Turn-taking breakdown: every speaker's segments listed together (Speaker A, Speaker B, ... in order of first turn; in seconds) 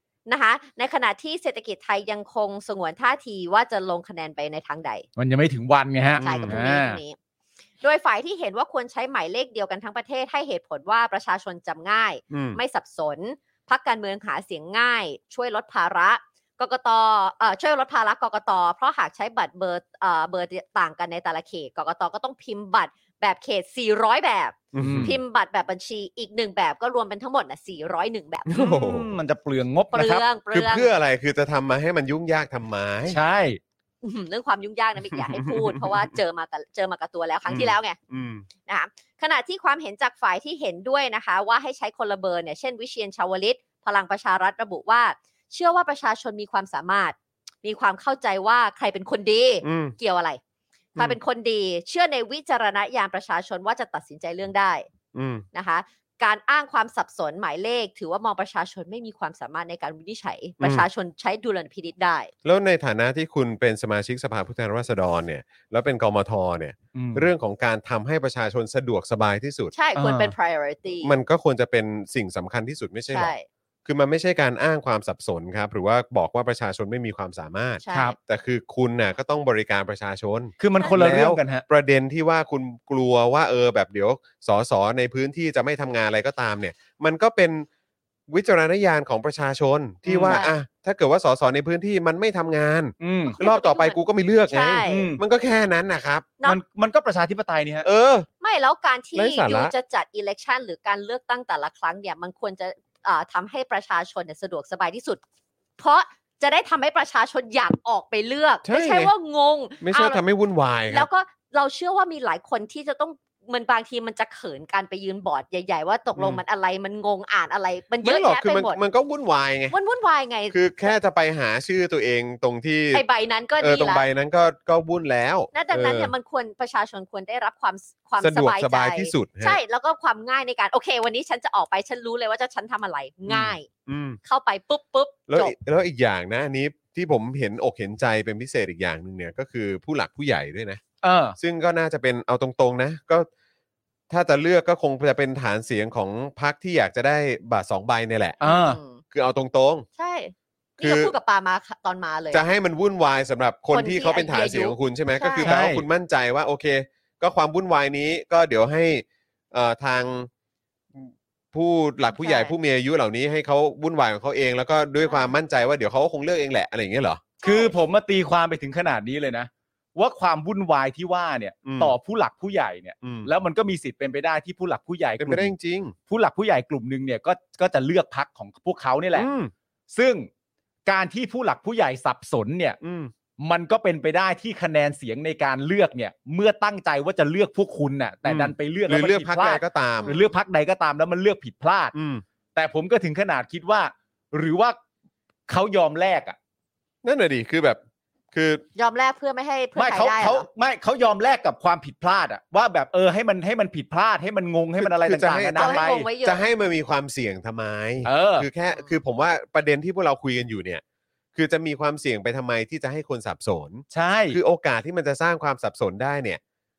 Speaker A: 0.3-5.0, 6.2-7.2, 7.8-28.7, 29.9-30.9, 34.0-38.0, 38.7-50.4, 51.0-54.9, 55.5-62.3, 69.7-71.1, 73.1-73.5, 77.8-78.2, 90.2-90.5, 93.3-95.1, 98.4-105.2, 105.8-110.2, 110.9-118.8, 119.7-120.9, 122.9-124.0, 125.5-133.7, 134.2-135.5, 148.4-149.0, 150.0-152.4, 153.7-155.5, 162.1-162.5, 165.0-165.3, 167.4-167.7, 190.0-190.3, 198.8-200.5, 205.6-206.4, 208.7-208.9
Speaker B: 5.2-7.0, 24.8-25.2, 28.6-30.2, 33.1-33.6, 66.9-67.3, 70.0-70.3, 80.6-81.6, 90.0-90.4, 93.0-93.3, 94.8-95.2, 96.4-97.9, 141.0-141.4, 148.4-148.8, 155.4-155.8, 167.4-175.5, 176.1-179.3, 179.9-180.3, 180.8-182.8, 183.4-191.9, 192.6-194.8, 195.5-196.4, 199.8-206.1, 208.1-208.5, 213.9-214.4
Speaker C: 6.2-6.6, 12.3-12.6, 24.7-25.2, 28.5-29.1, 30.5-33.2, 35.2-36.1, 37.5-38.5, 49.6-50.0, 55.1-55.4, 60.6-60.9, 62.4-69.7, 71.0-87.7, 88.3-96.3, 97.8-98.3, 99.1-99.7, 108.6-109.1, 109.8-111.1, 118.0-119.7, 120.5-123.0, 123.6-126.1, 128.2-129.6, 133.3-134.2, 135.3-140.8, 141.4-143.3, 144.1-148.4, 149.1-149.9, 150.8-151.1, 152.3-160.3, 161.0-167.3, 171.6-171.9, 173.0-173.3, 175.2-175.9, 179.1-179.5, 182.8-183.1, 188.2-190.1, 191.9-192.2, 197.0-197.8, 198.3-198.6, 204.8-210.8, 211.3-216.4